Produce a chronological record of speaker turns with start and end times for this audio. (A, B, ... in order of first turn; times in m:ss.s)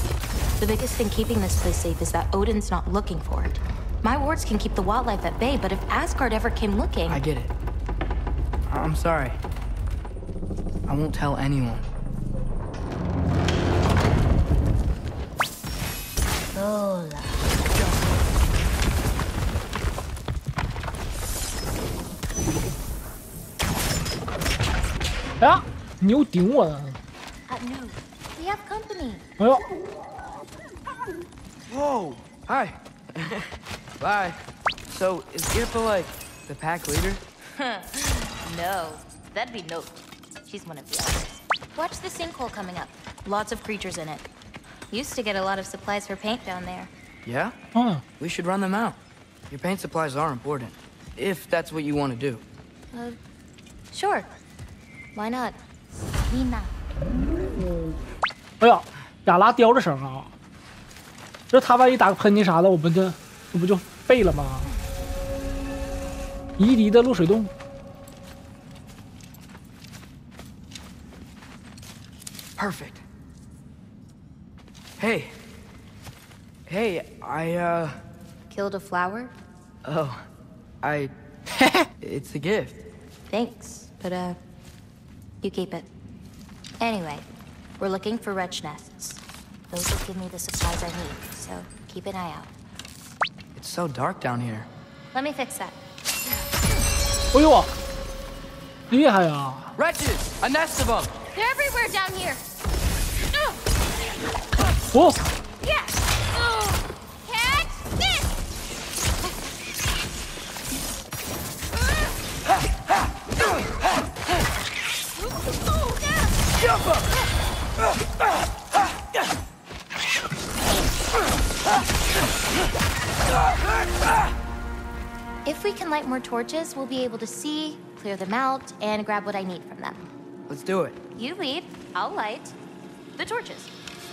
0:00.6-0:07.2 A
0:07.1-0:07.5 B
0:08.7-0:09.4 B
0:10.9-0:11.8 B
0:16.5-0:18.0 A
0:25.4-0:27.0 C
0:27.5-0:29.2 A
0:29.4-0:29.6 C
0:31.7-0:37.2 B
0:37.6-0:44.3 A
0:44.9-0:46.9 A
0:47.2-0:47.5 B
0:47.7-0:48.0 C
0:48.2-0:49.0 B
0:49.5-0:52.4 B
0:52.9-0:53.2 A
0:53.9-0:54.3 A
0:55.1-0:55.6 A
0:56.2-0:56.7 A
0:58.6-1:00.3 C
1:01.5-1:04.7 C
1:06.6-1:07.5 C
1:12.6-1:13.0 B
1:15.0-1:15.3 B
1:16.7-1:18.0 B
1:18.5-1:19.3 A
1:19.8-1:20.2 B
1:20.8-1:21.1 B
1:22.0-1:22.8 B
1:23.3-1:24.4 A
1:25.4-1:25.9 A
1:26.8-1:32.5 A
1:33.5-1:34.7 B
1:35.1-1:36.6 A
1:37.3-1:37.7 C
1:38.9-1:39.7 C
1:39.8-1:41.1 B
1:41.3-1:42.4 A
1:44.9-1:45.2 C
1:45.6-1:48.3 A
1:55.5-1:56.3 A
2:05.4-2:10.0 A
2:10.5-2:11.0 B
2:11.1-2:12.6 A
2:13.2-2:13.7 A